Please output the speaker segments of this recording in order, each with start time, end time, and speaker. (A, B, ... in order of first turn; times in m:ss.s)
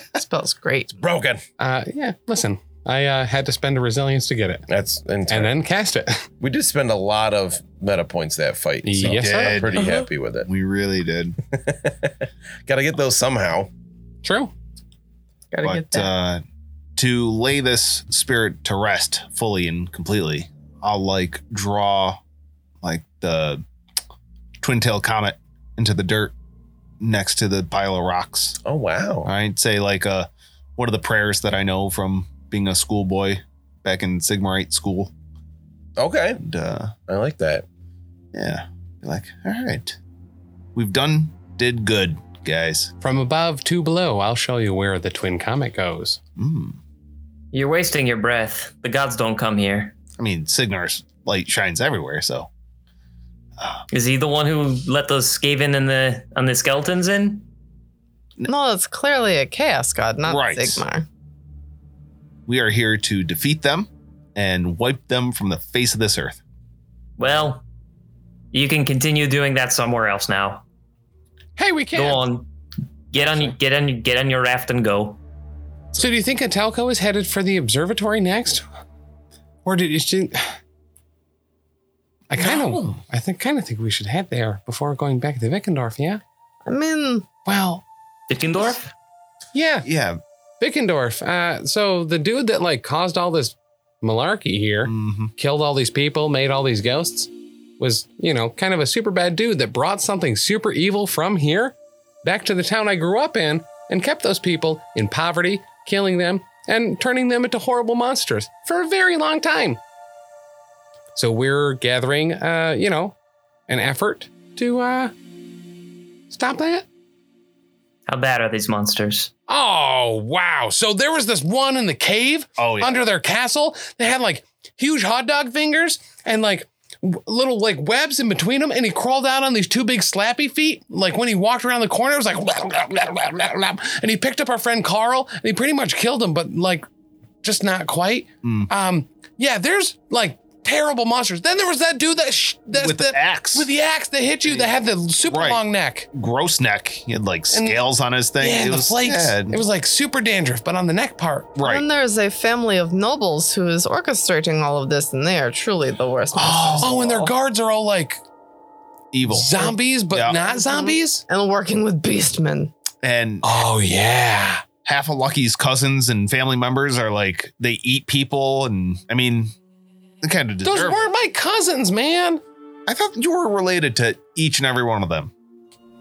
0:00.1-0:01.0 A
0:01.0-0:01.4 B
0:01.6-0:04.6 C
0:04.7-0:05.5 B
0:05.3-0:06.3 C
0:06.4-0:10.5 B
0:08.8-0:09.7 C
0:09.0-0:09.8 D
0:09.8-0:10.0 A
0:10.4-0:11.4 D
0:11.5-0:13.7 B
0:14.2-0:14.5 C
0:15.5-0:16.1 A
0:15.6-0:16.4 D
0:17.0-0:22.2 D
0:22.8-0:23.6 D
0:24.6-0:26.3 D
0:27.0-0:28.6 D
0:28.6-0:29.3 B
0:29.2-0:35.1 D
0:36.0-0:36.4 B
0:36.4-0:36.9 D
0:37.1-0:37.6 B
0:38.3-0:40.0 D
0:40.7-0:42.9 D
0:43.0-0:46.2 C
0:46.4-0:46.8 D
0:47.5-0:49.9 E
0:50.2-0:52.5 D
0:53.6-0:53.8 D
0:53.9-0:57.4 E
0:58.4-1:01.0 A
1:00.2-1:00.8 D
1:02.5-1:06.4 D
1:07.2-1:07.6 E
1:08.5-1:10.6 E
1:11.6-1:12.2 C
1:11.9-1:12.4 E
1:13.1-1:15.2 E
1:13.2-1:13.5 C
1:16.0-1:18.6 C
1:19.6-1:20.6 C
1:22.3-1:26.2 C
1:22.4-1:23.0 D
1:26.6-1:27.2 A
1:27.4-1:27.8 C
1:28.3-1:28.8 E
1:29.5-1:29.9 C
1:29.8-1:30.2 D
1:30.6-1:49.8 C
1:34.8-1:35.3 D
1:51.1-1:53.1 C
1:53.7-1:55.1 C
1:56.3-1:56.8 C
1:58.1-1:59.3 E
1:59.5-2:16.8 C
2:02.6-2:03.0 D
2:17.4-2:26.1 C
2:18.4-2:18.7 D
2:22.7-2:23.7 D
2:25.2-2:25.6 D
2:26.1-2:29.6 D
2:27.5-2:27.8 C
2:28.4-2:31.5 C
2:31.6-2:31.8 D
2:31.6-2:37.2 A
2:36.3-2:37.3 D
2:36.8-2:38.2 C
2:39.1-2:40.4 D
2:39.2-2:41.2 C
2:40.5-2:42.7 A
2:43.0-2:43.5 D
2:43.4-2:44.7 C
2:44.8-2:49.5 D
2:50.2-2:51.1 D
2:50.6-2:52.4 C
2:52.9-2:55.3 D